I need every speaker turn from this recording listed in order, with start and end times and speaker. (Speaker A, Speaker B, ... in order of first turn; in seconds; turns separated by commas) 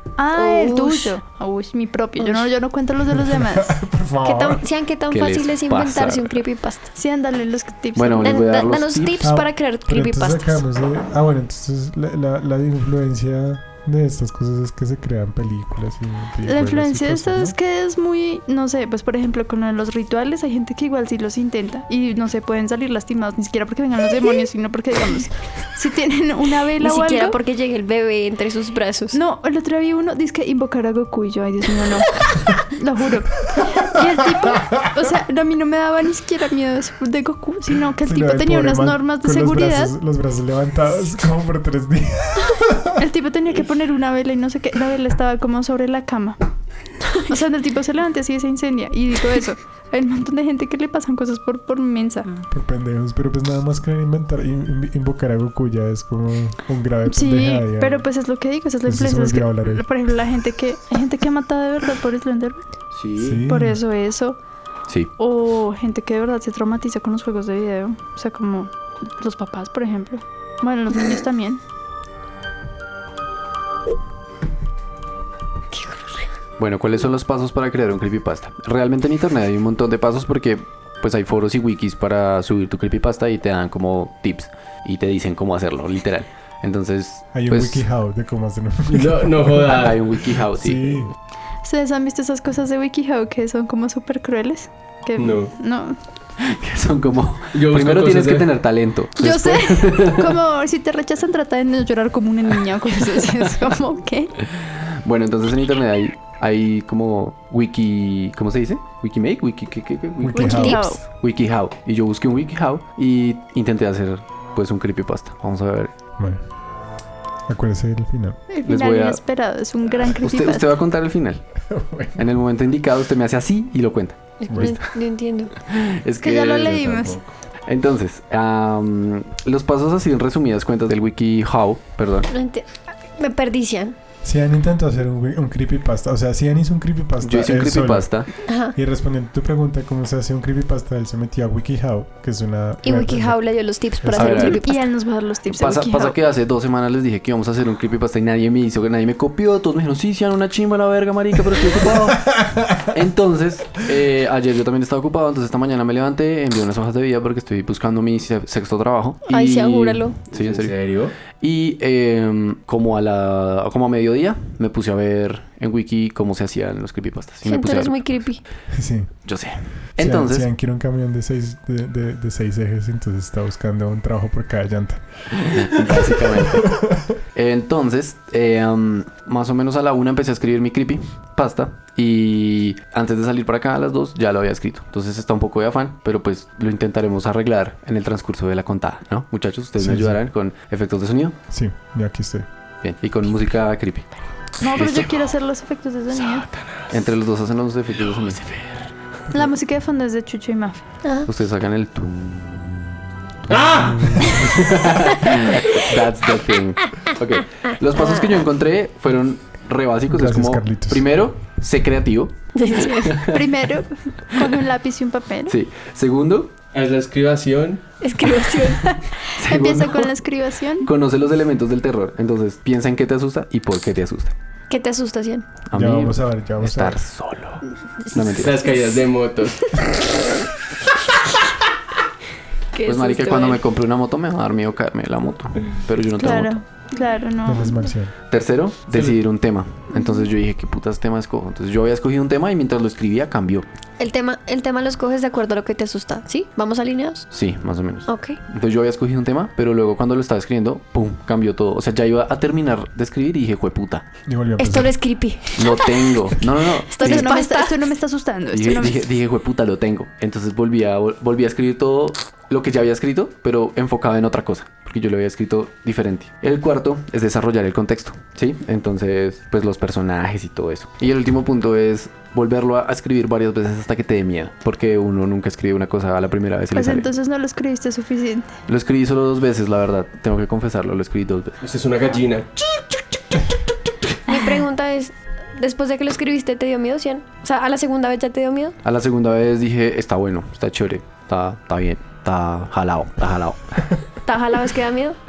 Speaker A: 0.2-3.8, Speaker B: 0.3-1.2, Speaker B: 2.2-2.5, Speaker C: 3.1-4.6, Speaker B: 4.2-6.9, Speaker D: 5.1-6.4, Speaker A: 6.9-8.5, Speaker D: 8.0-9.3, Speaker B: 8.2-10.6, Speaker C: 9.2-17.5, Speaker A: 16.4-27.4, Speaker B: 26.8-29.2, Speaker A: 29.1-40.0, Speaker C: 38.0-43.0, Speaker A: 43.0-46.4, Speaker A: 47.2-52.3, Speaker C: 52.5-58.1, Speaker A: 57.1-62.6, Speaker C: 58.8-59.9, Speaker D: 62.9-63.4, Speaker C: 63.1-63.8, Speaker A: 63.5-64.4, Speaker A: 65.2-71.6, Speaker B: 75.7-76.3, Speaker D: 76.6-87.8, Speaker C: 87.3-89.9, Speaker E: 88.9-90.2, Speaker D: 89.7-91.1, Speaker C: 90.5-91.1, Speaker A: 91.6-96.0, Speaker E: 95.2-95.5, Speaker D: 96.4-100.4, Speaker E: 97.5-98.5, Speaker A: 99.2-104.3, Speaker D: 104.4-115.9, Speaker C: 110.2-110.8, Speaker A: 110.3-111.0, Speaker B: 110.4-111.0, Speaker C: 117.5-118.4, Speaker A: 118.5-120.7, Speaker D: 118.6-119.2, Speaker D: 120.0-121.4, Speaker C: 121.7-122.2, Speaker D: 122.2-124.8, Speaker B: 124.4-125.5, Speaker C: 124.5-124.8, Speaker D: 125.6-127.1, Speaker A: 126.2-127.2, Speaker D: 127.7-132.3, Speaker B: 132.3-133.9, Speaker C: 134.2-144.6, Speaker D: 137.2-138.3, Speaker B: 138.4-138.8, Speaker B: 142.8-144.8, Speaker D: 144.1-144.6, Speaker A: 144.4-146.2, Speaker D: 145.5-160.8, Speaker B: 159.3-160.2, Speaker E: 160.3-161.1, Speaker D: 161.4-168.0, Speaker B: 167.4-168.4, Speaker C: 168.7-169.1, Speaker D: 169.2-170.5, Speaker C: 170.0-177.0, Speaker D: 175.4-176.8, Speaker D: 177.3-191.4, Speaker C: 189.8-190.2, Speaker C: 191.5-192.5, Speaker D: 192.8-194.1, Speaker A: 194.6-196.4, Speaker D: 194.6-195.2, Speaker E: 196.2-197.0, Speaker D: 196.9-198.4, Speaker E: 198.1-198.9, Speaker A: 199.3-200.9, Speaker B: 201.0-201.3, Speaker D: 201.2-212.5, Speaker E: 203.5-203.9, Speaker C: 203.8-204.4, Speaker B: 207.9-208.4, Speaker C: 210.1-211.1, Speaker B: 212.5-213.3, Speaker A: 213.1-215.5, Speaker D: 213.1-213.4, Speaker D: 215.5-216.5, Speaker E: 216.7-217.8, Speaker B: 218.0-219.0, Speaker A: 218.8-220.9, Speaker D: 219.4-220.1, Speaker D: 220.8-224.3, Speaker B: 224.7-225.6, Speaker D: 225.7-228.6, Speaker C: 225.7-227.0, Speaker E: 228.2-229.8, Speaker B: 232.7-233.6, Speaker D: 232.8-236.6, Speaker A: 236.2-237.9, Speaker C: 237.4-238.1, Speaker D: 238.3-243.7, Speaker B: 244.0-247.3, Speaker D: 247.3-254.1, Speaker B: 248.1-248.4, Speaker C: 254.2-255.0, Speaker B: 254.6-256.3, Speaker D: 255.5-257.3, Speaker B: 256.8-257.8, Speaker A: 256.9-259.0, Speaker D: 258.5-277.1, Speaker A: 276.7-278.6, Speaker D: 278.7-281.6, Speaker E: 281.6-282.9, Speaker B: 284.3-288.8, Speaker D: 288.8-293.8, Speaker B: 294.2-295.2